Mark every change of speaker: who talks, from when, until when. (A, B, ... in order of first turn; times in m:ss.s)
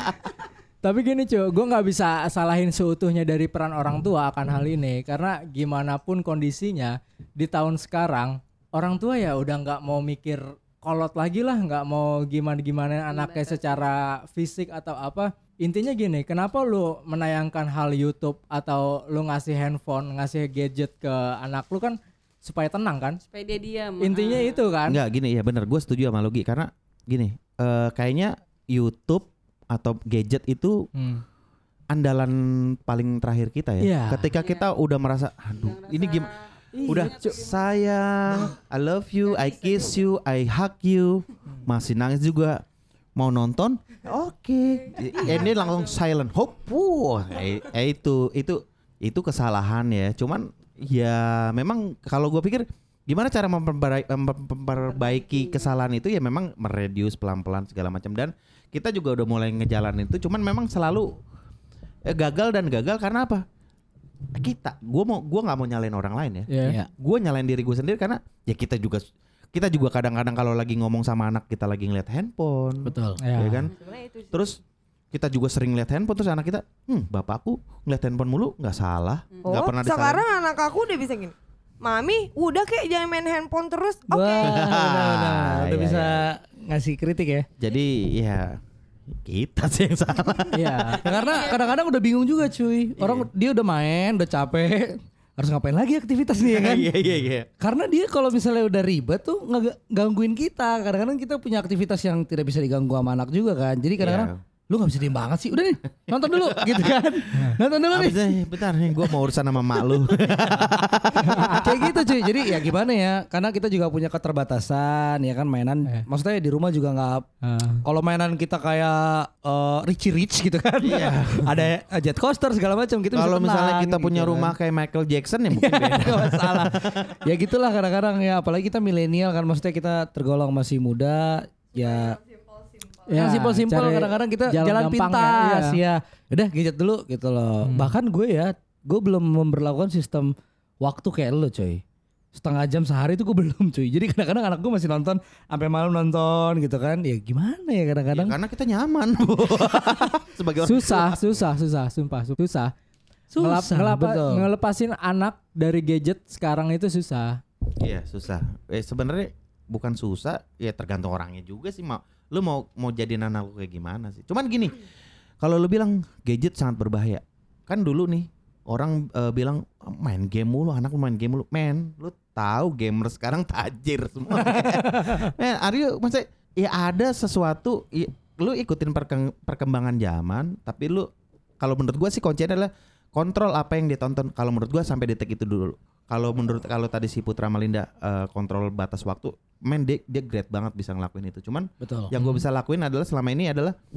0:00.8-0:23.2 A
0:13.1-0:13.8 B
0:23.3-0:24.6 B
0:24.0-0:25.0 A
0:24.9-0:30.9 C
0:30.9-0:31.2 A
0:31.9-0:36.3 C
0:33.8-0:34.3 A
0:34.4-0:34.7 B
0:35.7-0:37.6 B
0:36.7-0:37.4 A
0:36.8-0:42.6 C
0:43.2-1:01.2 C
0:45.2-0:45.7 B
1:02.0-1:03.4 C
1:04.3-1:13.7 C
1:06.5-1:06.8 A
1:06.6-1:06.9 D
1:12.8-1:13.2 D
1:13.2-1:13.7 A
1:13.7-1:14.4 E
1:14.3-1:14.6 C
1:15.1-1:20.2 C
1:19.4-1:24.6 E
1:24.1-1:27.5 D
1:24.4-1:26.3 C
1:27.6-1:28.6 C
1:29.1-1:31.1 C
1:30.5-1:31.0 A
1:31.0-1:36.9 D
1:33.0-1:33.3 C
1:36.4-1:37.5 C
1:37.6-1:48.3 D
1:44.0-1:44.4 C
1:46.5-1:46.8 C
1:47.9-1:52.1 C
1:51.2-1:51.6 A
1:51.3-1:57.2 D
1:57.4-1:57.8 A
1:57.8-2:04.5 D
2:00.8-2:01.6 C
2:03.1-2:07.1 C
2:05.5-2:12.2 D
2:13.0-2:15.8 A
2:13.1-2:21.8 D
2:17.6-2:17.9 A
2:22.3-2:28.4 D
2:28.1-2:31.4 C
2:30.6-2:32.7 A
2:33.3-2:34.5 D
2:33.4-2:37.4 A
2:37.8-2:44.8 C
2:45.4-3:01.1 C
2:54.4-2:55.3 D
3:01.6-3:13.7 C
3:11.8-3:12.1 D
3:12.2-3:12.4 A